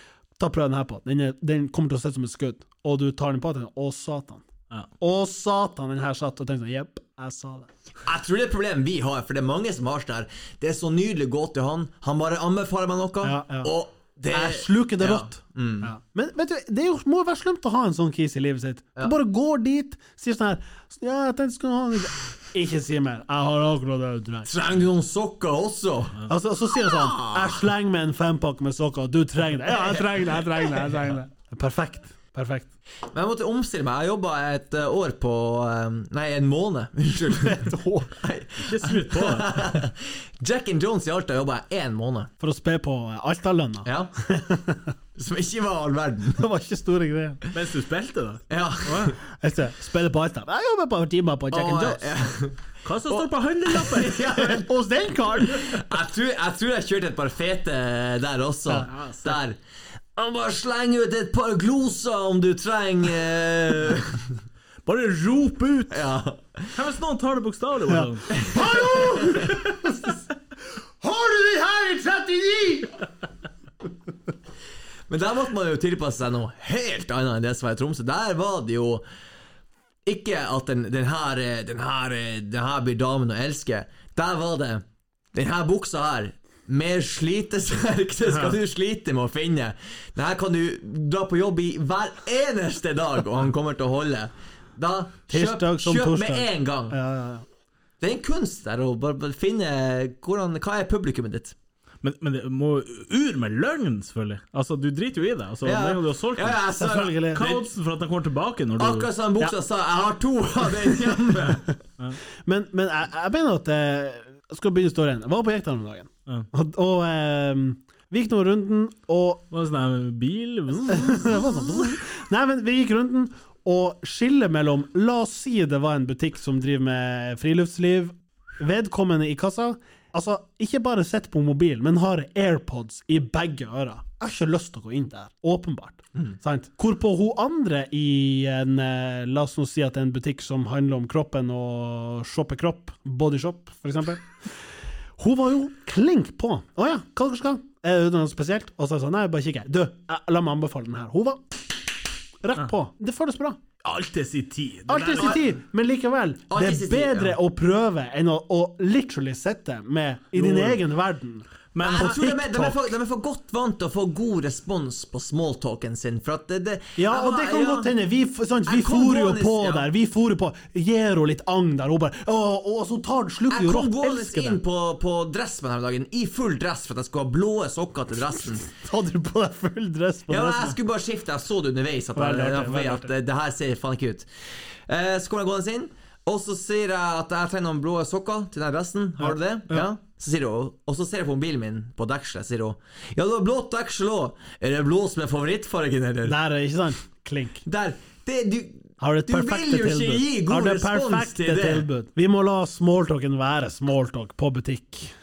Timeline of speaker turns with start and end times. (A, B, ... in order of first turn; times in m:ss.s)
0:00.4-0:04.4 A
0:05.0-0:07.7 A
0:08.1-0:15.9 B
0:13.2-0:13.7 A
0:14.3-0:24.5 A
0:24.5-0:26.2 B
0:26.3-0:32.7 A
0:26.8-0:27.6 B
0:33.1-0:42.3 B
0:37.4-0:38.1 A
0:38.6-0:39.7 C
0:42.4-0:44.9 A
0:43.8-0:44.1 B
0:45.2-0:46.4 B
0:46.4-0:47.4 A
0:47.5-0:49.2 C
0:48.5-0:49.2 B
0:49.3-0:52.1 A
0:51.5-0:54.7 B
0:52.8-0:54.6 C
0:54.3-0:55.8 A
0:55.5-0:59.6 B
0:58.9-0:59.4 C
1:00.2-1:04.3 B
1:04.8-1:06.1 C
1:05.9-1:06.8 B
1:06.8-1:08.4 C
1:07.9-1:10.2 A
1:08.3-1:09.6 B
1:11.0-1:13.0 A
1:15.1-1:19.0 B
1:20.0-1:37.0 B
1:28.3-1:28.6 C
1:35.3-1:37.4 A
1:38.0-1:41.6 B
1:42.0-1:46.6 C
1:45.6-1:47.6 B
1:46.8-1:47.4 A
1:47.2-1:49.1 C
1:48.8-1:51.8 B
1:52.4-1:59.4 A
1:59.5-2:01.5 C
2:00.8-2:24.3 A
2:25.2-2:31.6 A
2:32.4-2:33.6 A
2:33.8-2:35.5 C
2:34.9-2:42.9 A
2:35.1-2:35.4 B
2:36.5-2:37.4 B
2:40.4-2:40.8 C
2:41.7-2:42.2 C
2:41.8-2:47.9 B
2:47.0-2:54.6 A
2:48.7-2:49.9 B
2:53.5-2:58.7 B
2:58.7-3:00.8 A
3:00.3-3:04.3 B
3:02.2-3:03.1 A
3:04.9-3:16.4 B
3:09.2-3:09.9 A
3:16.2-3:17.6 A
3:17.6-3:21.9 B
3:19.0-3:25.1 A